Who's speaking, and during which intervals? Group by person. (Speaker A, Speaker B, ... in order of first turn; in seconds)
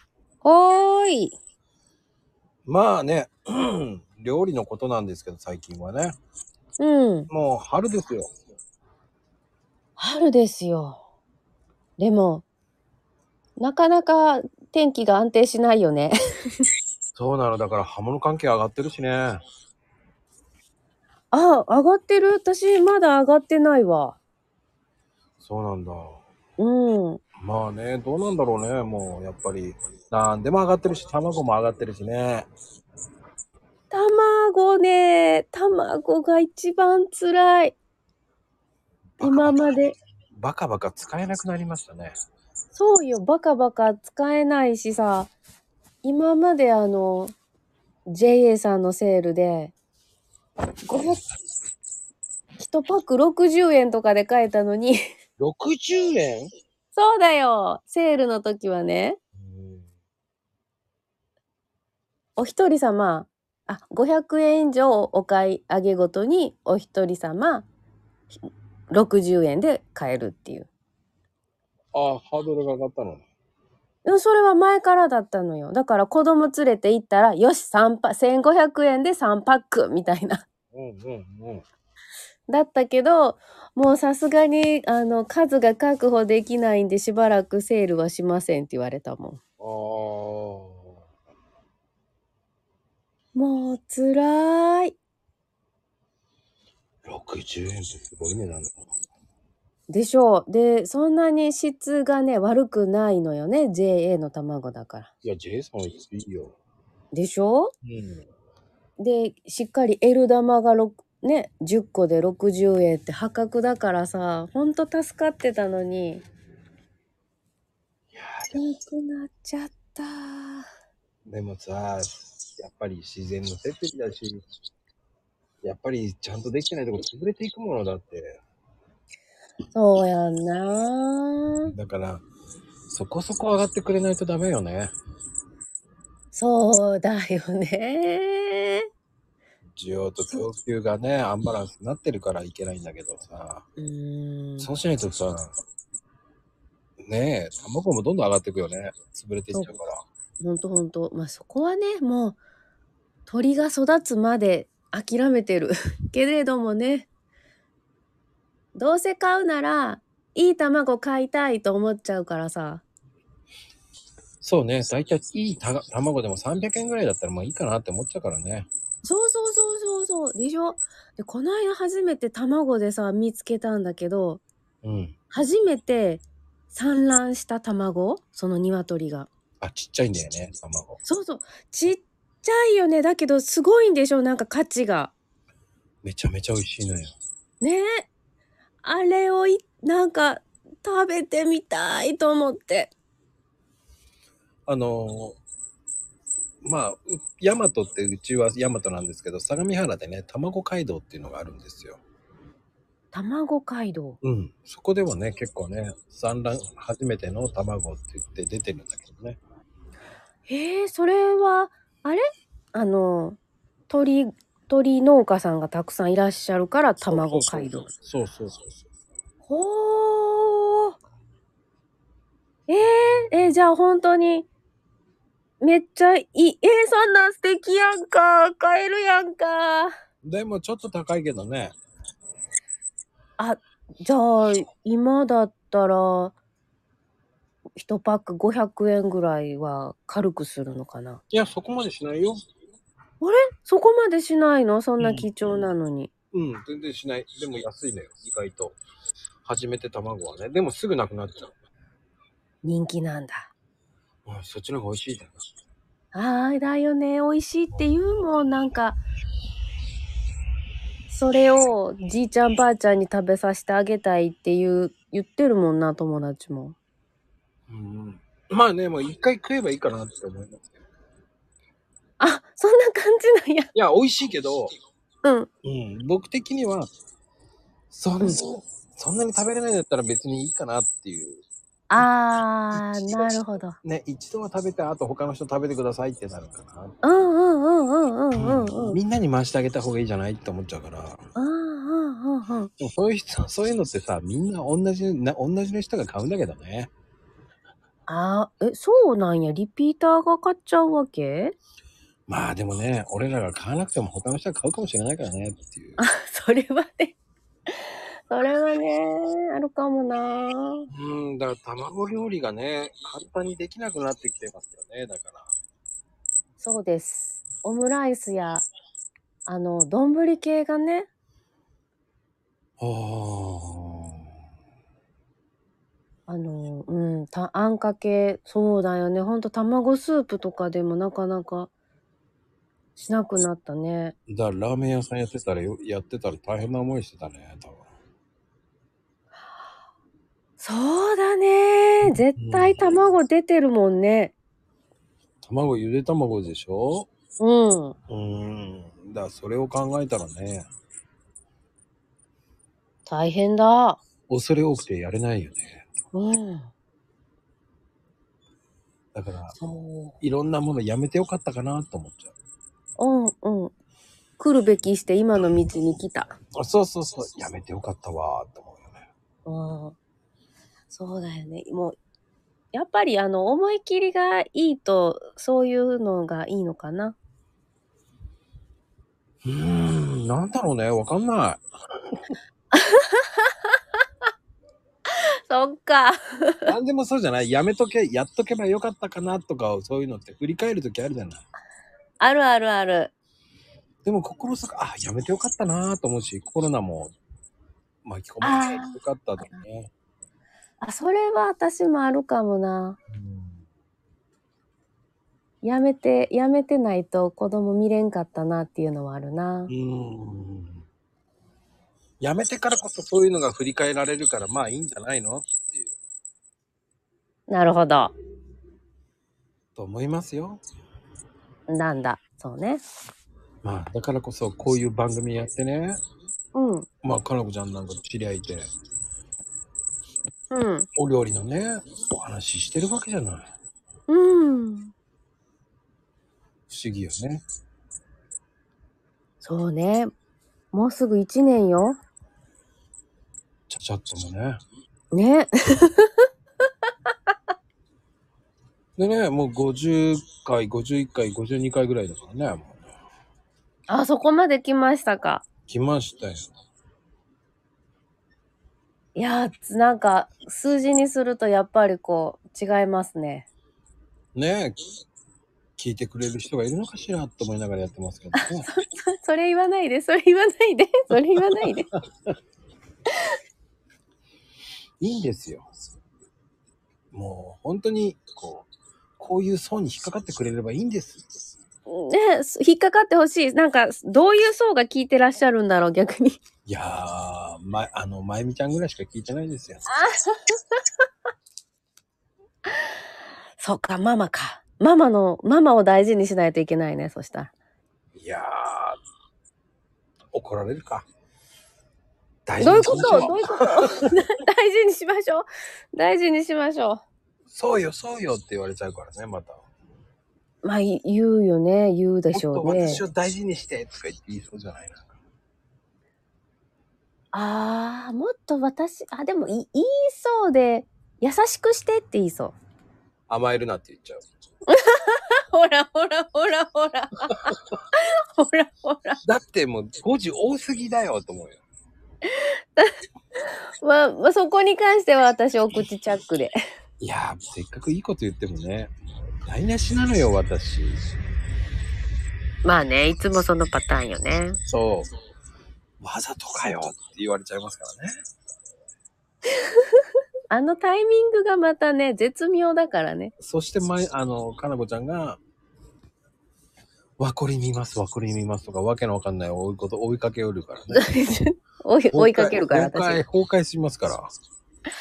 Speaker A: 0.4-1.4, 6.8-7.3, 10.0-11.0, 12.0-12.4, 13.6-16.6, 21.3-24.2, 26.6-27.2, 33.9-37.8, 39.2-40.0, 42.7-45.3, 46.0-47.3, 48.1-49.7, 50.8-51.2, 52.6-55.0, 57.0-59.2, 62.4-67.7, 68.9-70.7, 74.0-80.4, 82.5-89.4, 93.3-95.0, 99.9-105.1, 107.1-107.7, 109.0-116.2, 118.5-120.7, 129.7-131.7, 136.3-138.9, 143.8-144.7, 150.4-152.4, 153.3-157.1, 158.7-162.8, 169.0-174.4, 175.3-179.3, 181.0-185.1, 187.6-188.1, 188.8-192.9, 203.1-204.2, 210.5-217.9, 219.5-221.0, 222.7-224.5, 225.6-229.9, 233.4-236.3, 237.8-241.2, 243.2-246.1, 252.6-253.5, 256.1-259.0, 261.1-266.8, 272.2-273.7, 275.2-275.5, 281.9-283.8, 287.0-289.0, 291.3-292.7, 298.1-301.5, 306.0-307.2, 307.7-310.9, 316.6-318.6, 319.5-321.1, 326.3-331.7, 333.0-334.1, 340.6-344.3, 347.4-348.0, 353.1-354.0, 356.1-356.7, 359.6-360.2, 363.0-363.7, 364.4-366.4, 369.4-369.9, 370.9-372.0, 372.7-377.1, 382.7-383.7, 385.1-386.7, 392.2-393.1, 398.4-399.6, 400.8-403.0, 405.6-409.7, 417.5-418.1, 421.7-422.8, 426.5-426.9, 430.5-430.9, 434.1-434.9, 439.4-440.1, 440.7-442.0, 445.1-446.3, 453.9-455.4, 459.1-463.5, 468.4-471.9, 481.9-486.4, 489.9-490.8, 493.6-497.5, 502.6-507.0, 510.6-513.0, 517.3-522.5, 524.7-529.2, 532.3-532.9, 533.8-536.6, 542.6-544.6, 550.5-553.3, 560.9-563.2
Speaker B: 2.6-6.1, 7.3-8.3, 17.1-19.4, 25.4-26.2, 27.4-32.5, 39.2-42.1, 55.4-56.5, 59.4-59.9, 71.9-73.2, 80.7-81.6, 89.6-90.9, 97.0-98.8, 105.2-106.5, 107.8-108.2, 118.1-118.6, 121.2-124.4, 125.6-128.4, 131.7-132.2, 132.9-134.9, 139.8-143.6, 144.6-145.5, 147.0-150.0, 164.4-168.7, 174.8-175.1, 179.6-181.0, 186.0-187.1, 194.7-195.4, 196.6-202.0, 204.2-209.4, 217.1-218.7, 230.2-231.7, 241.3-242.4, 245.0-245.3, 246.3-248.8, 249.4-251.5, 254.2-255.4, 267.7-270.8, 273.7-274.7, 275.6-276.9, 277.9-281.4, 282.7-283.2, 283.8-286.9, 288.3-291.2, 292.8-296.9, 302.3-306.0, 310.9-315.5, 322.8-324.2, 334.3-337.8, 342.0-342.9, 345.4-347.1, 348.1-350.7, 354.3-355.9, 359.1-359.6, 360.2-362.3, 366.6-369.0, 379.4-381.6, 386.7-391.4, 394.0-397.1, 398.0-399.9, 403.1-403.6, 409.7-410.8, 412.2-415.9, 419.8-420.6, 423.6-426.0, 427.0-428.7, 431.0-433.5, 436.7-437.4, 443.7-444.6, 449.0-452.8, 455.7-456.5, 464.3-464.8, 465.8-468.7, 475.0-475.7, 477.1-481.2, 486.6-489.9, 498.1-499.0, 500.3-501.0, 502.4-504.1, 507.5-509.6, 512.3-515.1, 523.3-524.2, 529.2-531.6, 537.0-541.1, 544.7-545.1, 546.0-548.1, 553.4-555.4, 557.2-561.0, 562.1-564.3